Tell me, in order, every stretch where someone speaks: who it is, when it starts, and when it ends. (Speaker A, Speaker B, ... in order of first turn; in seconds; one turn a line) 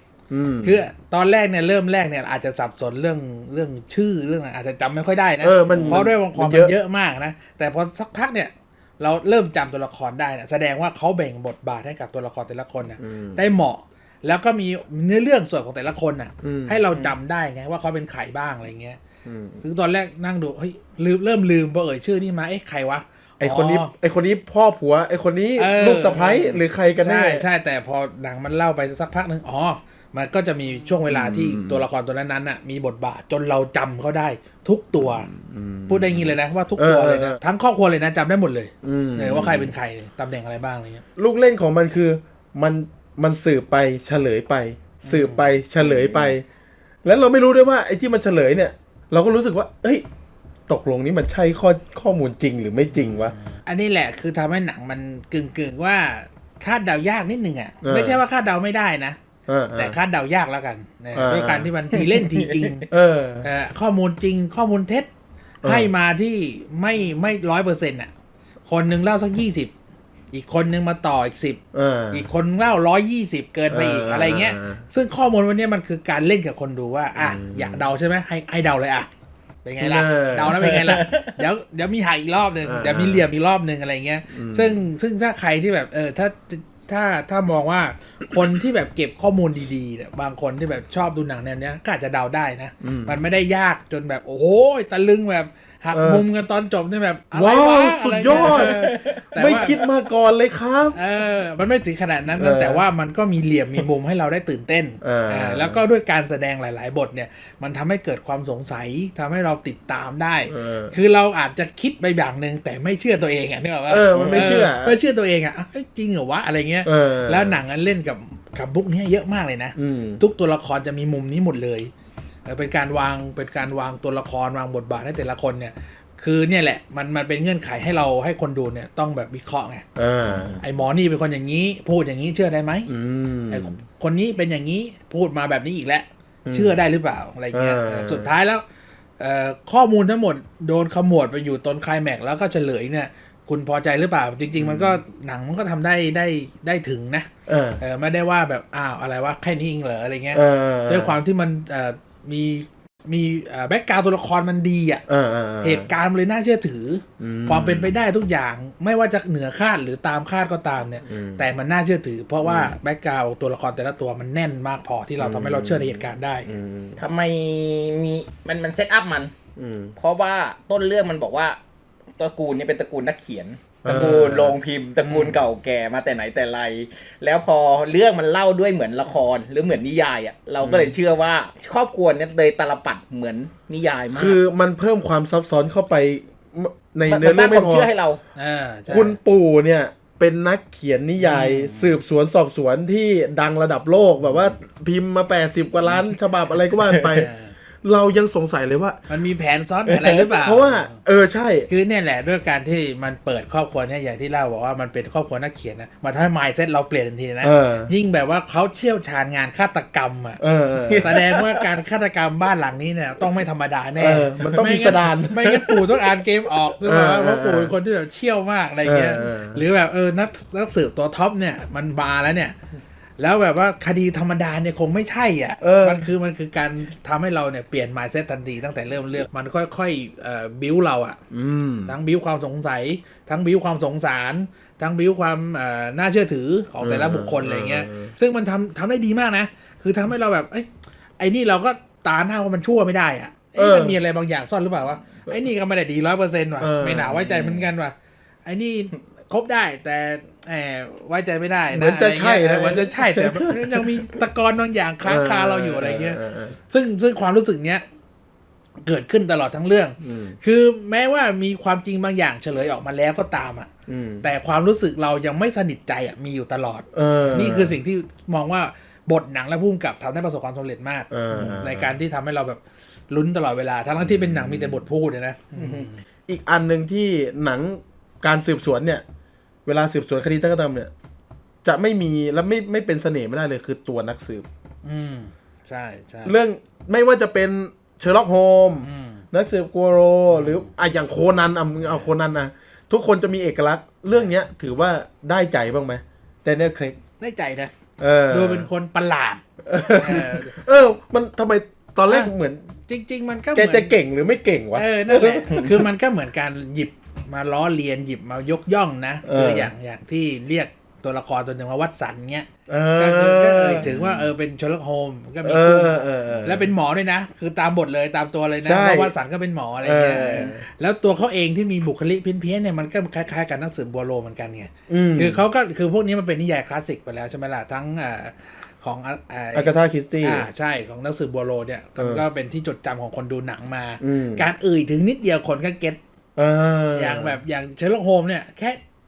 Speaker A: 0.3-0.8
Speaker B: 0.6-19.0
Speaker A: 5.4-6.7
Speaker C: 5.7-6.0
Speaker A: 13.0-13.4
Speaker A: 16.4-17.1
Speaker A: 19.2-19.6
Speaker B: 19.6-23.9
Speaker A: 23.4-27.4
Speaker B: 25.6-35.3
Speaker A: 31.1-31.8
Speaker A: 35.0-37.4
Speaker B: 35.9-41.0
Speaker A: 38.8-39.7
Speaker A: 41.2-46.4
Speaker B: 45.0-45.5
Speaker A: 47.0-50.0
Speaker A: 50.7-53.3
Speaker B: 53.0-59.2
Speaker A: 57.8-58.2
Speaker A: 59.5-60.0
Speaker B: 59.7-62.9
Speaker A: 61.1-61.7
Speaker C: 62.2-62.8
Speaker A: 62.9-63.5
Speaker B: 63.4-65.1
Speaker A: 65.6-65.9
Speaker B: 65.6-68.1
Speaker B: 68.7-69.7
Speaker B: 70.3-79.1
Speaker A: 71.7-72.2
Speaker A: 73.7-74.8
Speaker A: 77.2-77.9
Speaker B: 79.6-99.8
Speaker A: 79.8-80.8
Speaker C: 80.6-81.4
Speaker A: 82.6-83.3
Speaker A: 84.3-84.8
Speaker A: 92.8-93.2
Speaker A: 95.9-96.2
Speaker A: 97.3-101.0
Speaker C: 98.3-99.2
Speaker B: 100.9-121.9
Speaker A: 102.4-102.8
Speaker A: 105.0-105.8
Speaker A: 110.5-110.9
Speaker A: 113.9-115.0
Speaker C: 114.1-114.5
Speaker A: 116.8-117.6
Speaker A: 119.8-120.2
Speaker B: 122.5-129.8
Speaker A: 129.9-130.6
Speaker B: 130.6-132.9
Speaker A: 132.9-133.8
Speaker B: 133.5-138.6
Speaker A: 136.4-136.8
Speaker A: 137.5-138.3
Speaker B: 139.2-147.3
Speaker A: 144.6-145.0
Speaker A: 147.5-147.8
Speaker B: 147.8-155.0
Speaker A: 150.3-151.2
Speaker A: 155.1-155.9
Speaker B: 155.6-166.5
Speaker A: 157.2-157.9
Speaker A: 161.1-161.4
Speaker A: 162.4-162.7
Speaker A: 165.2-167.0
Speaker C: 167.0-169.3
Speaker A: 169.6-169.9
Speaker C: 170.0-171.6
Speaker C: 172.2-184.4
Speaker A: 173.8-174.6
Speaker B: 175.0-175.3
Speaker A: 180.6-181.0
Speaker A: 184.1-187.9
Speaker C: 187.1-188.2
Speaker B: 188.3-189.2
Speaker A: 188.9-197.3
Speaker B: 191.2-192.0
Speaker C: 196.9-197.2
Speaker B: 197.2-197.5
Speaker A: 197.8-199.0
Speaker B: 199.1-201.0
Speaker C: 199.9-200.2
Speaker A: 200.4-201.7
Speaker B: 201.7-210.4
Speaker A: 207.4-207.9
Speaker A: 210.4-211.2
Speaker C: 210.9-211.7
Speaker B: 211.0-222.5
Speaker A: 214.0-215.9
Speaker A: 216.8-217.7
Speaker A: 218.8-219.6
Speaker B: 223.2-231.2
Speaker A: 225.6-226.1
Speaker A: 231.3-231.9
Speaker B: 231.8-247.9
Speaker A: 236.8-238.1
Speaker A: 243.6-244.0
Speaker A: 246.6-247.5
Speaker C: 247.3-247.6
Speaker B: 248.4-257.8
Speaker A: 251.7-254.0
Speaker A: 255.0-256.6
Speaker B: 258.8-263.7
Speaker A: 260.0-260.4
Speaker A: 263.9-264.2
Speaker B: 264.2-276.0
Speaker A: 266.9-267.8
Speaker A: 271.1-271.9
Speaker A: 274.0-274.8
Speaker C: 275.5-275.9
Speaker A: 276.3-279.0
Speaker A: 279.6-280.9
Speaker A: 281.6-284.4
Speaker B: 284.8-286.4
Speaker A: 286.2-297.0
Speaker B: 288.8-289.2
Speaker B: 290.3-290.7
Speaker B: 297.2-297.7
Speaker A: 298.0-298.7
Speaker B: 298.3-300.5
Speaker A: 299.6-302.6
Speaker B: 302.9-303.9
Speaker A: 303.5-305.9
Speaker B: 304.7-329.7
Speaker A: 309.2-309.7
Speaker A: 312.7-314.3
Speaker A: 315.4-316.7
Speaker A: 318.6-319.1
Speaker A: 319.8-320.6
Speaker A: 324.9-325.4
Speaker A: 329.5-330.4
Speaker B: 330.2-336.0
Speaker A: 332.0-332.2
Speaker A: 334.0-334.4
Speaker A: 336.4-337.4
Speaker B: 336.9-338.8